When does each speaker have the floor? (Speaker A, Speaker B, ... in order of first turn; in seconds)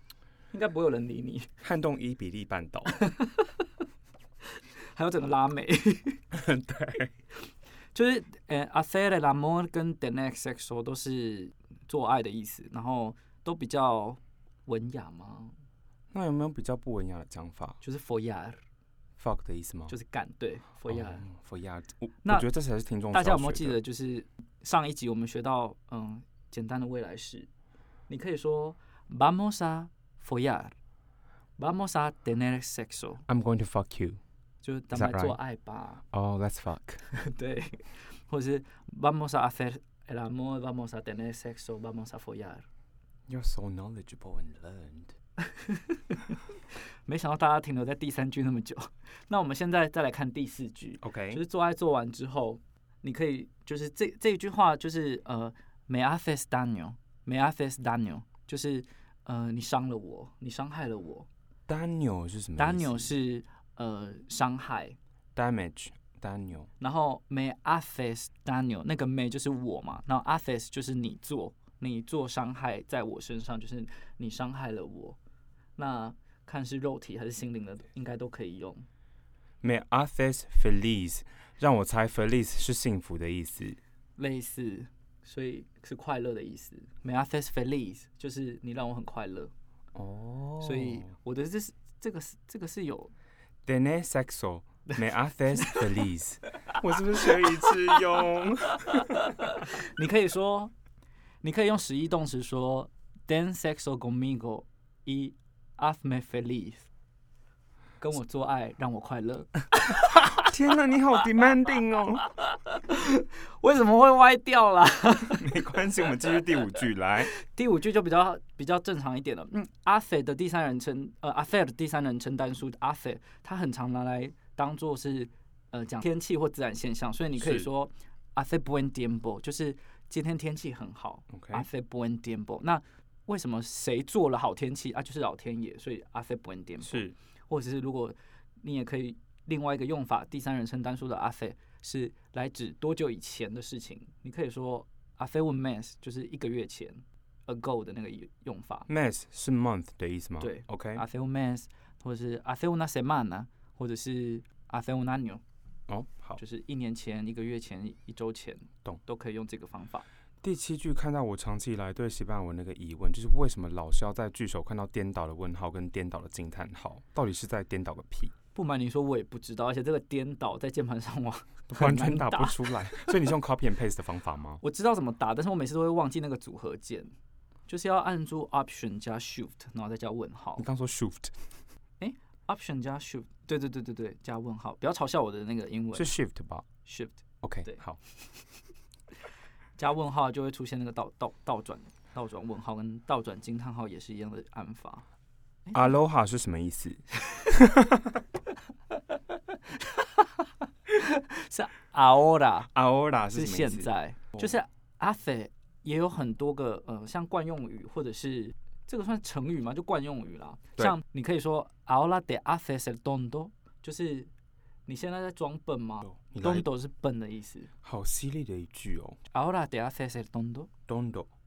Speaker A: 0.5-1.5, 2.9-3.7, 4.6-6.2, 7.9-15.5, 17.8-18.6, 19.9-21.2, 23.1-27.5, 28.1-30.7, 31.6-33.2, 34.6-36.0, 37.1-42.6, 45.4-46.4, 47.0-61.3, 62.6-65.0, 66.8-75.2, 75.8-78.8, 84.2-89.5, 90.6-93.1, 97.5-97.7, 99.4-100.7, 101.4-106.9, 108.0-110.4, 112.6-115.5, 117.3-148.9, 150.4-155.4, 156.4-160.1, 168.5-173.1, 174.6-177.1, 177.7-180.6, 182.0-186.1, 186.8-187.8, 189.8-195.0, 195.7-195.9, 198.9-202.7, 203.3-214.3, 214.9-217.7, 219.3-220.7
Speaker B: 1.6-2.9, 6.3-7.1, 16.1-17.8, 19.2-19.9, 20.9-23.8, 33.3-34.2, 34.9-35.4, 36.1-37.0, 43.3-45.1, 51.0-51.4, 61.7-63.1, 65.3-66.7, 79.6-83.8, 89.9-91.1, 93.7-99.4, 110.2-112.3, 115.4-117.3, 127.4-127.7, 131.3-131.7, 136.8-137.2, 148.9-151.0, 155.9-156.4, 160.4-168.3, 171.7-174.6, 180.6-181.3, 185.9-186.7, 187.4-188.0, 195.7-198.2, 202.7-204.5, 216.0-216.7, 217.8-219.2, 220.9-221.3